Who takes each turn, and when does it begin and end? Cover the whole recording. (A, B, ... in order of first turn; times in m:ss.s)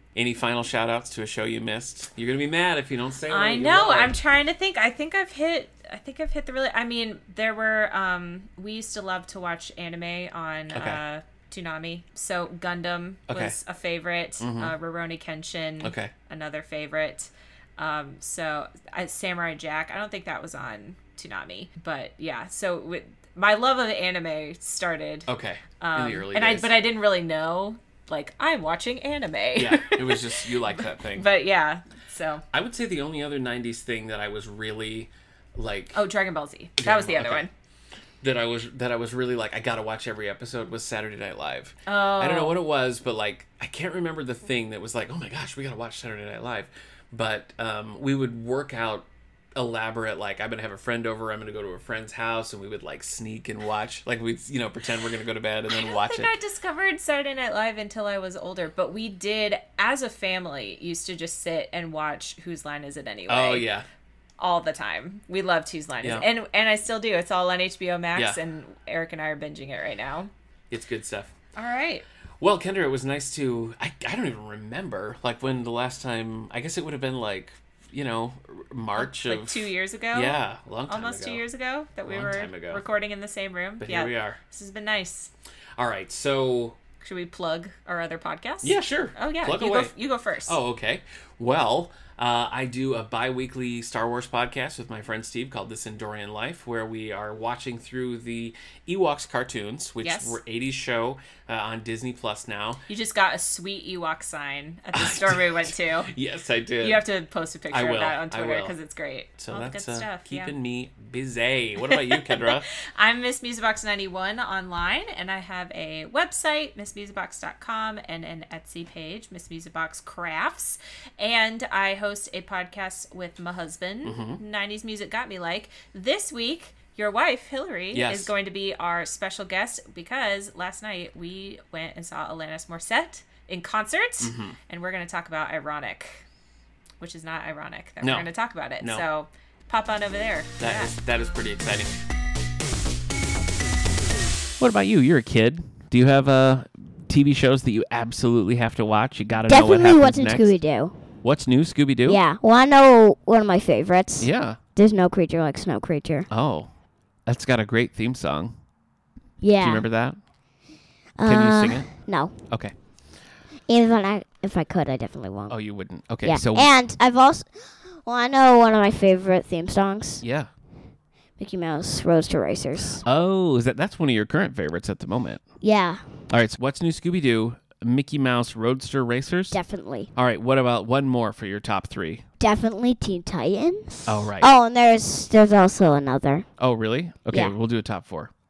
0:00.1-0:04.2 A
0:03.3-0:25.3 B
0:10.7-0:11.0 A
0:13.3-0:13.6 A
0:14.4-0:14.7 A
0:15.8-0:16.1 A
0:25.3-0:26.8 A
0:25.8-0:32.4 B
0:29.6-0:31.3 A
0:32.5-0:36.0 A
0:35.9-0:37.5 B
0:36.8-0:37.4 A
0:38.2-0:56.3 A
0:41.8-0:42.6 B
0:55.7-1:03.7 B
1:03.3-1:03.8 A
1:04.4-1:10.3 B
1:10.7-1:11.3 A
1:11.6-1:12.0 B
1:12.4-1:21.4 A
1:19.0-1:25.3 B
1:22.0-1:22.8 A
1:23.8-1:24.4 A
1:25.8-1:26.8 A
1:27.0-1:30.6 B
1:28.6-1:29.9 A
1:30.5-1:42.8 A
1:40.0-1:40.4 B
1:42.9-1:46.1 B
1:44.9-1:47.0 A
1:46.8-1:50.5 B
1:47.7-1:48.7 A
1:49.4-1:52.6 A
1:51.9-2:16.2 B
2:04.0-2:04.4 A
2:07.9-2:08.3 A
2:14.2-2:14.6 A
2:17.0-2:20.9 B
2:18.0-2:18.3 A
2:18.8-2:19.0 A
2:20.6-2:21.9 A
2:24.6-2:30.6 A
2:29.5-2:31.2 C
2:31.2-2:32.2 A
2:32.0-2:36.3 C
2:34.2-2:34.6 A
2:36.3-2:36.7 A
2:37.2-2:38.5 A
2:39.4-2:39.8 C
2:39.6-2:40.2 A
2:41.2-2:42.4 C
2:41.2-2:42.8 A
2:43.7-2:50.2 C
2:45.5-2:46.7 A
2:50.2-2:50.5 A
2:51.4-2:53.0 C
2:53.0-2:55.4 A
2:55.6-2:56.2 C
2:56.3-2:59.6 A
2:59.5-3:00.1 C
3:00.1-3:02.2 A
3:02.4-3:06.5 C
3:04.0-3:04.5 A
3:06.6-3:08.3 A